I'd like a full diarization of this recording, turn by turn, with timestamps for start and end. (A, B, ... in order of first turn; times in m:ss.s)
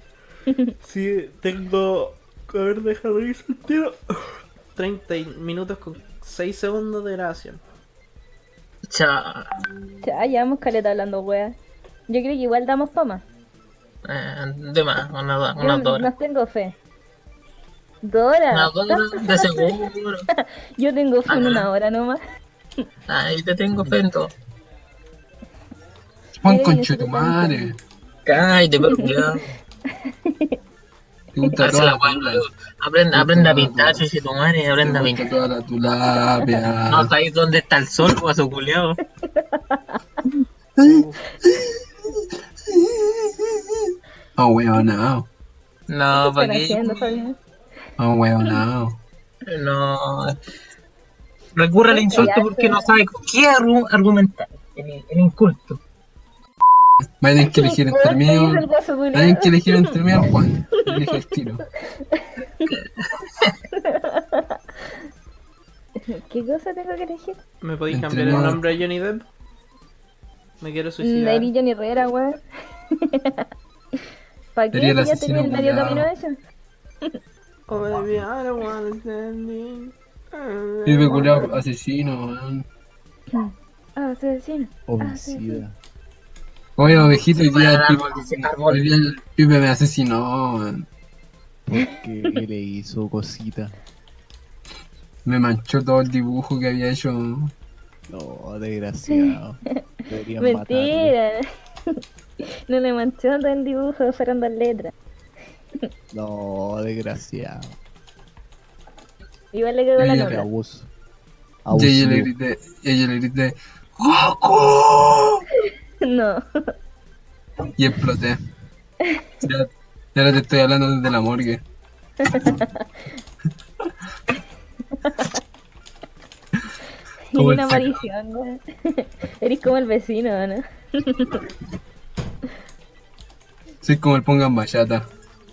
0:00.5-0:00.7 A
0:00.8-0:07.6 B
0:08.9-0:09.6 C
0:10.0-0:11.6 A
0:12.1-0:13.2 A
0:14.0-0:16.1 C
0:15.6-0:16.8 A
0:18.0-0:19.8 A
0:18.5-0:20.2 C
0:20.3-0:22.2 A
0:21.3-0:21.7 C
0:23.1-0:24.3 C
0:26.4-0:27.8 D
0:26.4-0:27.7 A
0:28.2-0:29.5 C
0:28.9-0:29.2 A
0:30.0-0:30.6 A
0:31.3-0:32.4 D
0:31.6-0:35.4 C
0:33.1-0:34.0 D
0:34.8-0:37.1 D
0:36.3-0:36.6 A
0:36.9-0:39.0 C
0:39.3-0:40.0 A
0:40.8-0:41.8 D
0:40.8-0:41.2 B
0:42.7-0:45.3 D
0:45.9-0:47.2 C
0:46.1-0:47.4 A
0:48.0-0:49.0 D
0:49.4-0:50.4 C
0:51.5-0:55.8 C
0:51.9-0:52.9 A
0:57.2-1:01.6 D
0:57.4-1:00.0 A
1:01.9-1:02.7 A
1:03.7-1:04.6 A
1:06.1-1:07.4 A
1:07.6-1:09.2 B
1:07.9-1:08.6 D
1:10.6-1:11.5 B
1:11.0-1:12.4 A
1:12.9-1:13.4 A
1:14.6-1:16.4 A
1:14.7-1:16.1 D
1:17.7-1:21.5 B
1:20.8-1:22.6 D
1:21.1-1:21.4 A
1:23.3-1:25.6 A
1:24.9-1:25.8 E
1:26.8-1:30.9 D
1:27.4-1:28.8 C
1:31.6-1:33.8 E
1:35.2-1:37.5 D
1:38.1-1:41.1 E
1:40.4-1:42.0 A
1:42.7-1:44.9 A
1:46.1-1:47.8 E
1:49.5-1:50.4 A
1:50.0-1:50.4 D
1:50.2-1:50.9 E
1:51.6-1:52.3 E
1:51.7-1:55.4 D
1:55.6-1:56.7 A
1:57.8-1:58.4 D
1:59.4-2:01.6 D
2:02.2-2:02.9 A
2:05.0-2:05.4 A
2:07.3-2:11.4 A
2:07.4-2:08.1 D
2:13.8-2:15.0 D